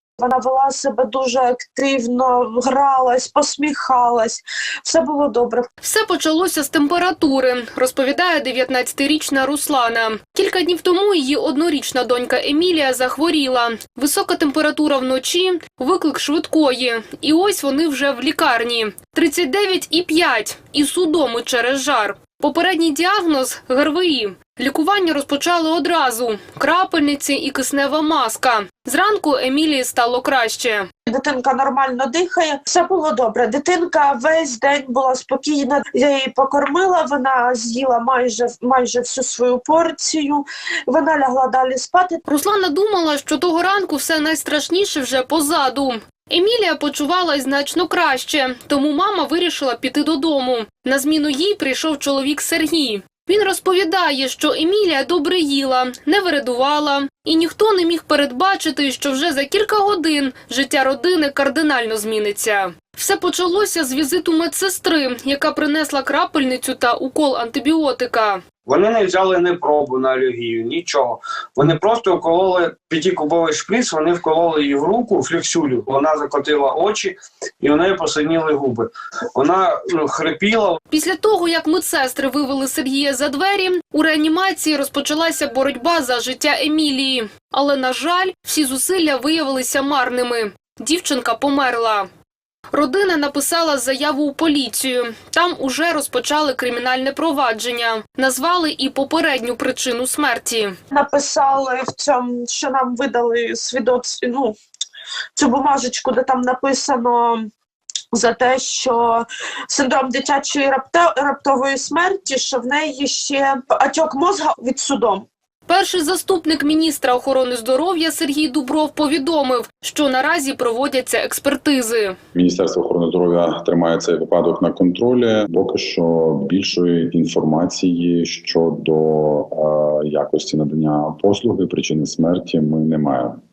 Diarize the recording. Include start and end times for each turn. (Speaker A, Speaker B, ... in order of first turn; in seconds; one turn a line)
Speaker A: 0.2-5.7
Speaker B: 5.8-30.9
Speaker A: 31.1-42.2
Speaker B: 42.3-68.4
Speaker C: 68.7-80.8
Speaker B: 80.9-92.1
Speaker B: 92.7-100.8
Speaker A: 100.9-104.5
Speaker A: 105.4-107.5
Speaker A: 108.1-115.2
Speaker B: 115.7-122.2
Speaker D: 122.3-133.4